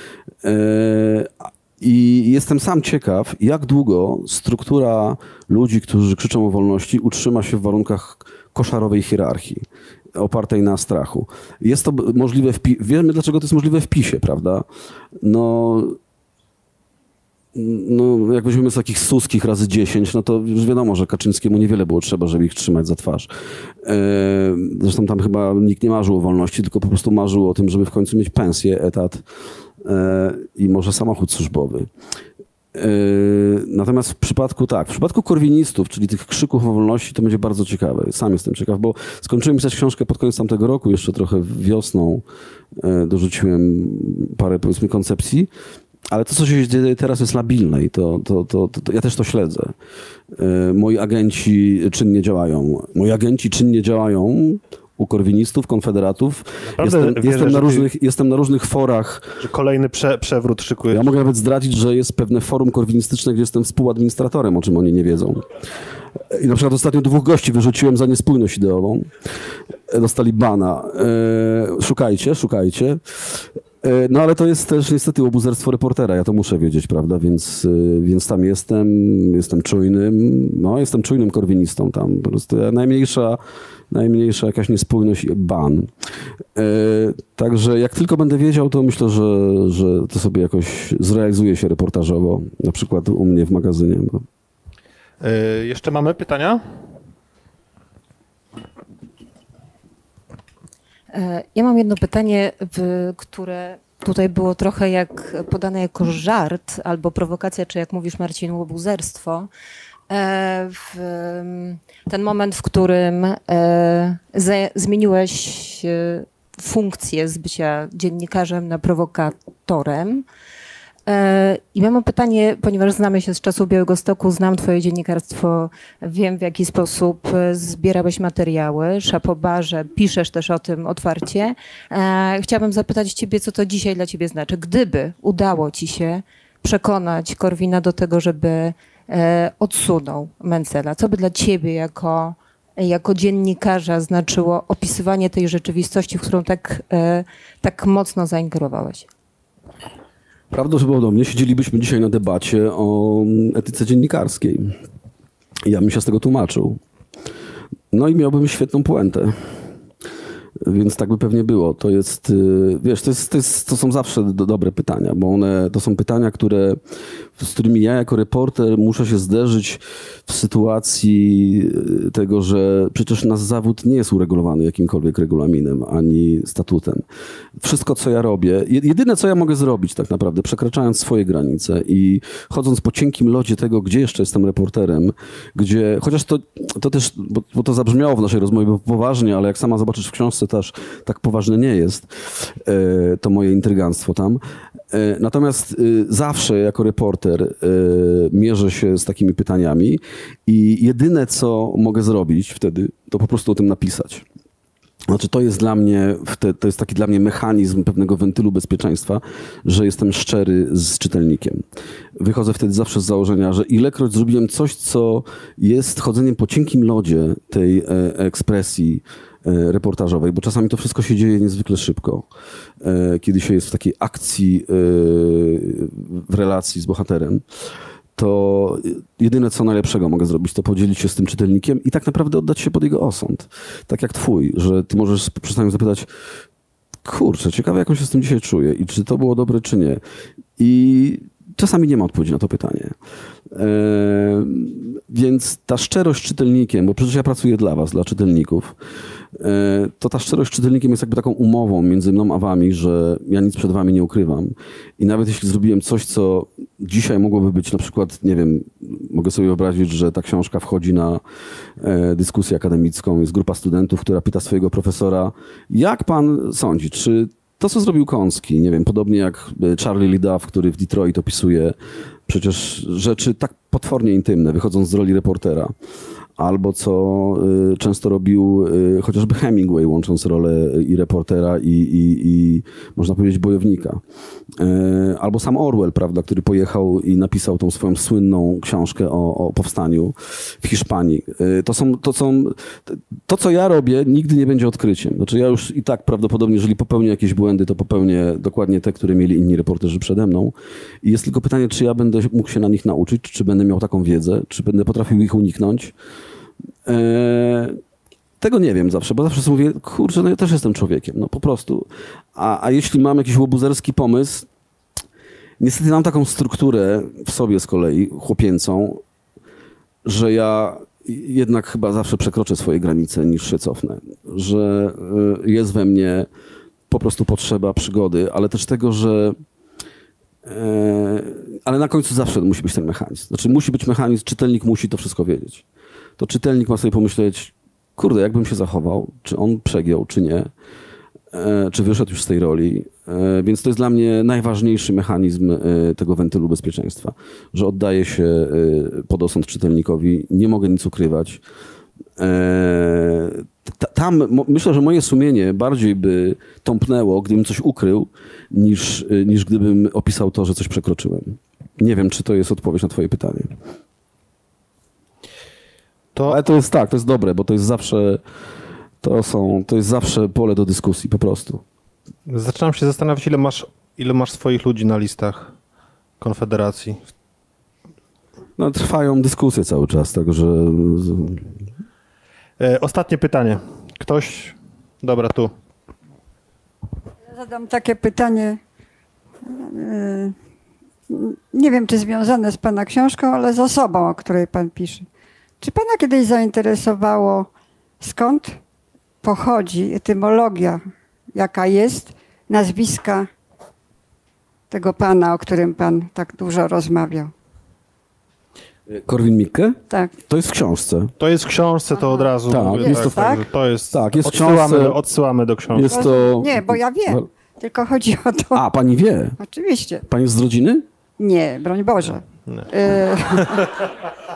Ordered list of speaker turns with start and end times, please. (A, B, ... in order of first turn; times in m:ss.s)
0:00.4-0:14.6 A
0:15.2-0:16.0 A
0:17.5-0:23.3 A
0:23.8-0:29.2 A
0:29.8-0:31.9 A
0:32.7-0:42.2 A
0:42.8-0:45.5 A
0:46.1-0:49.7 A
0:50.3-0:59.4 A
0:56.8-0:57.9 B
0:59.4-1:01.1 B
1:00.9-1:05.5 A
1:06.3-1:09.1 A
1:09.9-1:23.4 A
1:23.9-1:25.9 A
1:26.6-1:34.2 A
1:35.2-1:36.6 B
1:41.1-1:49.5 C
1:50.1-2:00.3 C
2:01.1-2:29.1 C
2:30.5-2:34.8 A
2:35.6-2:36.8 A
2:37.9-2:39.6 A
2:40.6-2:46.8 A
2:47.4-2:57.0 A
2:57.6-3:14.4 A
3:14.9-3:24.2 A
3:25.1-3:31.6 A
3:32.2-3:42.3 A
3:42.8-3:47.4 A
3:48.2-3:56.1 A
3:57.0-4:00.0 A
4:00.6-4:03.0 A
4:03.5-4:08.8 A
4:09.4-4:21.2 A
4:21.8-4:31.8 A
4:32.3-4:35.7 A
4:36.4-4:44.0 A
4:44.5-5:05.9 A
5:06.8-5:07.8 A
5:08.4-5:14.5 A
5:15.6-5:19.0 A
5:20.0-5:26.3 A
5:26.9-5:29.4 A
5:30.4-5:35.6 A
5:36.2-5:40.5 A
5:41.3-5:51.4 A
5:52.2-6:03.5 A
6:06.3-6:08.2 A
6:09.0-6:11.6 A
6:12.3-6:15.5 B
6:16.2-6:17.0 B
6:18.6-6:21.5 A
6:22.6-6:25.5 B
6:27.3-6:28.6 D
6:29.5-6:30.4 D
6:31.1-6:35.1 D
6:35.6-6:37.5 D
6:38.0-6:38.6 D
6:39.2-6:40.8 D
6:41.4-6:43.3 D
6:44.7-6:47.3 D
6:48.9-6:51.1 A
6:51.2-6:55.9 B
6:52.0-6:53.4 D
6:52.5-6:55.0 A
6:55.7-6:57.3 A
6:55.9-6:58.6 D
6:58.5-6:59.4 A
6:59.4-7:00.0 D
7:00.1-7:00.8 A
7:01.2-7:03.7 D